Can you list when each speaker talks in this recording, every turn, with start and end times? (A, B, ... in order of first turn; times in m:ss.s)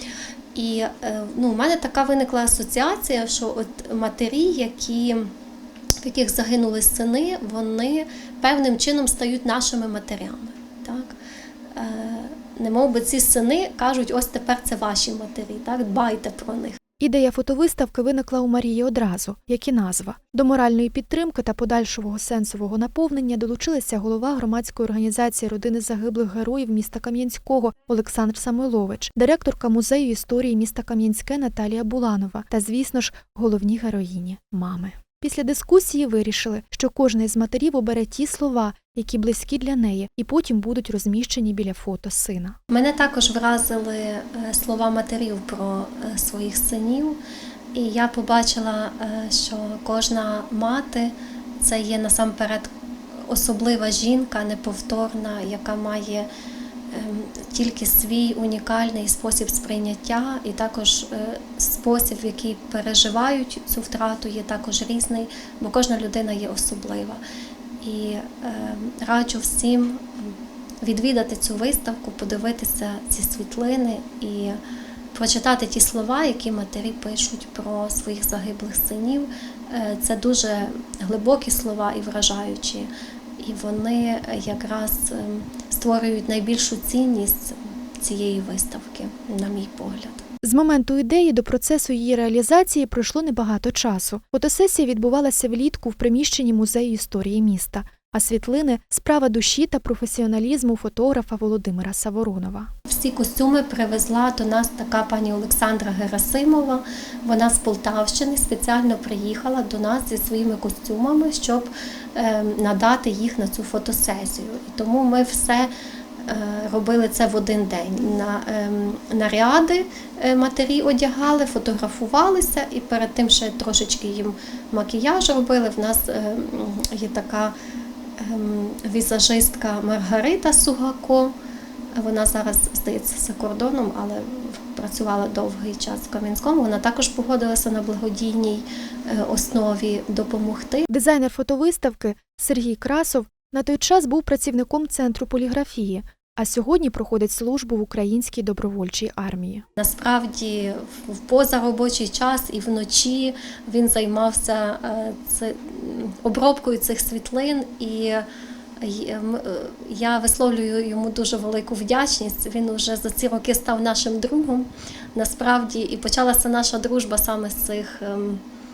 0:00.6-0:05.3 A
0:06.0-0:11.2 A
0:11.7-0:16.8 A
0:17.0-0:42.6 B
0:42.7-0:47.2 A
0:47.7-0:52.7 A
0:53.2-0:56.3 A
0:56.9-1:07.2 A
1:07.8-1:14.6 A
1:15.1-1:30.2 A
1:30.4-1:42.7 B
1:42.9-1:55.7 A
1:56.2-2:07.6 A
2:08.2-2:11.4 A
2:12.0-2:20.9 A
2:20.9-2:29.6 B
2:29.8-2:38.3 A
2:38.8-2:48.4 A